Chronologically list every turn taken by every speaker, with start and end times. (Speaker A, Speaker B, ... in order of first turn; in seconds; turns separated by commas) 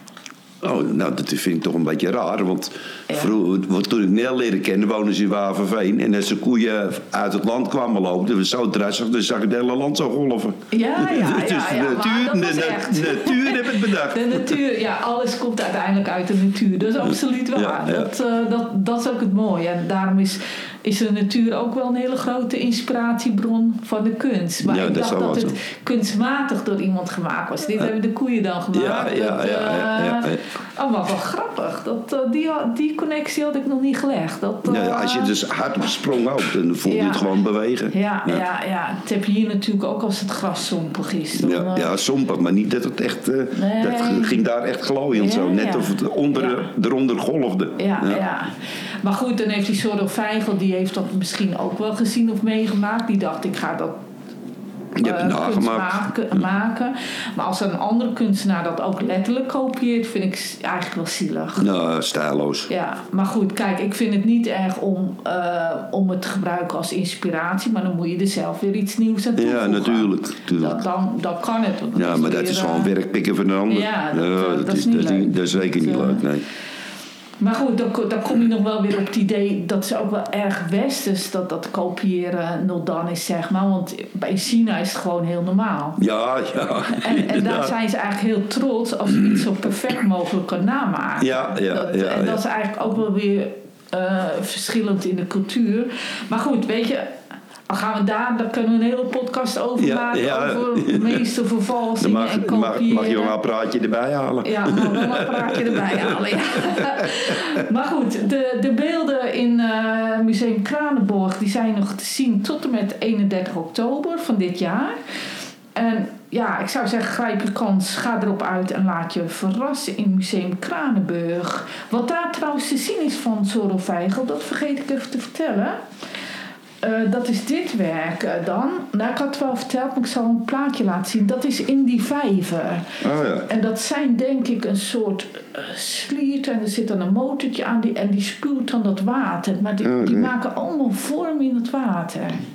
Speaker A: 0.6-14.6, Speaker B: 10.7-35.4, Speaker A: 17.5-18.1, Speaker A: 24.6-25.6, Speaker A: 28.7-30.4, Speaker A: 34.6-38.4, Speaker B: 36.9-37.4, Speaker B: 37.9-42.0, Speaker A: 41.4-48.2, Speaker B: 43.5-44.4, Speaker B: 45.1-46.7, Speaker B: 47.8-53.9, Speaker A: 55.0-56.0, Speaker B: 55.0-61.7, Speaker A: 61.6-62.7, Speaker B: 62.7-72.9, Speaker A: 69.4-70.8, Speaker A: 72.0-76.4, Speaker B: 73.7-76.3, Speaker B: 77.4-86.0, Speaker A: 86.0-87.7, Speaker B: 86.8-97.1, Speaker A: 91.2-92.4, Speaker B: 97.7-103.3, Speaker A: 99.8-101.2, Speaker A: 102.0-107.4, Speaker B: 104.4-115.0, Speaker B: 115.8-125.8, Speaker B: 126.8-142.4, Speaker A: 133.0-133.5, Speaker A: 139.8-140.3